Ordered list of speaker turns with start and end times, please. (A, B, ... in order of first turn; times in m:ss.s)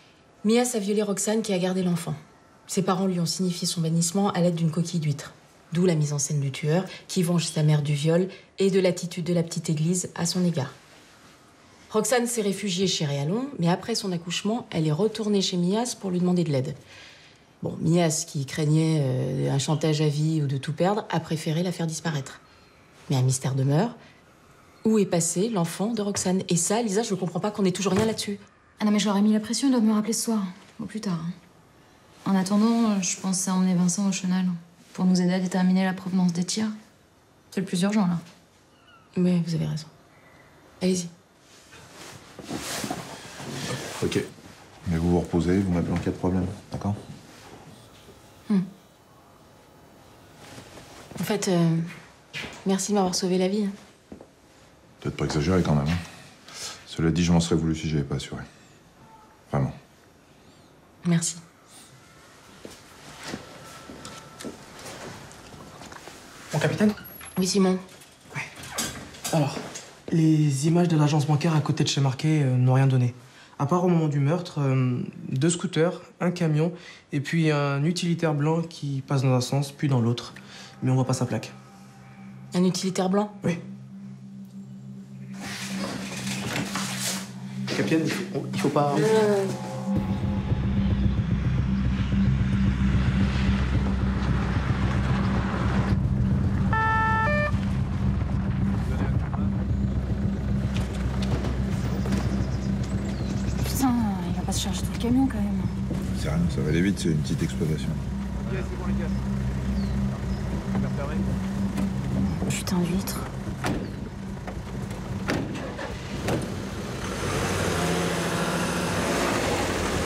0:00.4-0:10.7 A
0:11.9-0:16.8 A
0:17.6-0:22.4 A
0:23.1-0:24.0 A
0:24.8-0:28.4 A
0:28.8-0:31.3 B
0:32.2-0:36.8 B
0:37.5-0:38.2 B
0:39.1-0:39.9 A
0:40.8-0:41.1 A
0:44.9-0:47.0 C
0:51.2-0:51.9 A
0:52.6-0:53.7 A
0:55.0-0:56.0 C
0:56.9-0:58.4 C
1:01.0-1:01.4 A
1:06.5-1:07.0 D
1:07.4-1:07.8 A
1:09.3-1:21.5 D
1:22.5-1:23.3 A
1:27.7-1:29.1 D
1:43.6-1:45.8 B
1:46.1-1:48.0 C
1:52.4-1:53.3 A